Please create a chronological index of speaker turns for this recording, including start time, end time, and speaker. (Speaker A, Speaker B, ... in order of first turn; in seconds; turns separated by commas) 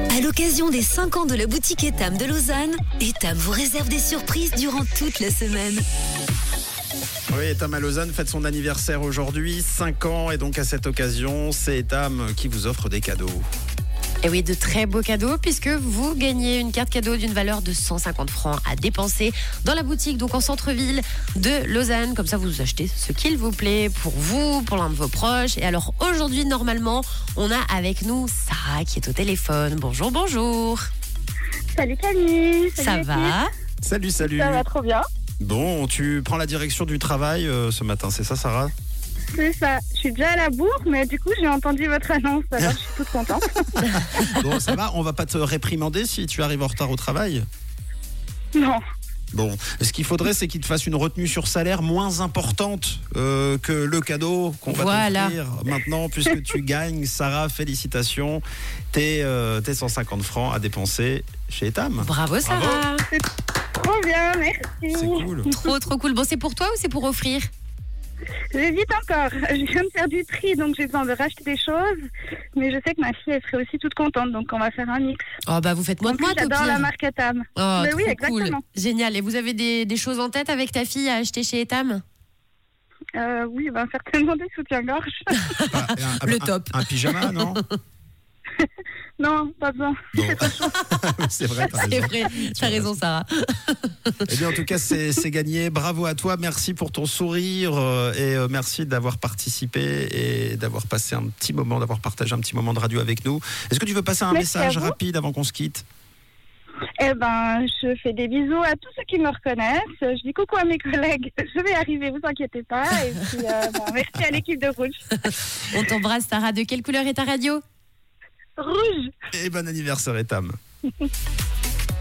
Speaker A: 0.1-5.8, Speaker B: 7.3-13.4, Speaker C: 14.2-30.8, Speaker D: 31.7-33.4, Speaker C: 32.8-33.5, Speaker B: 33.8-34.6, Speaker D: 34.2-35.0, Speaker B: 35.4-38.7, Speaker D: 39.3-43.4, Speaker B: 43.8-47.4, Speaker D: 48.5-48.8, Speaker B: 49.3-62.8, Speaker C: 54.7-55.4, Speaker C: 62.0-63.0, Speaker D: 63.1-65.7, Speaker B: 64.9-65.5, Speaker C: 65.5-67.5, Speaker D: 68.5-72.0, Speaker D: 72.5-75.2, Speaker C: 75.5-76.9, Speaker D: 76.0-78.6, Speaker C: 77.5-82.0, Speaker D: 83.2-85.3, Speaker C: 85.4-87.7, Speaker B: 85.7-87.6, Speaker D: 89.2-90.7, Speaker B: 90.1-93.0, Speaker C: 91.7-94.2, Speaker B: 94.2-105.8, Speaker D: 104.3-104.9, Speaker D: 107.0-115.1, Speaker C: 115.7-117.6, Speaker D: 118.6-119.1, Speaker B: 119.3-120.5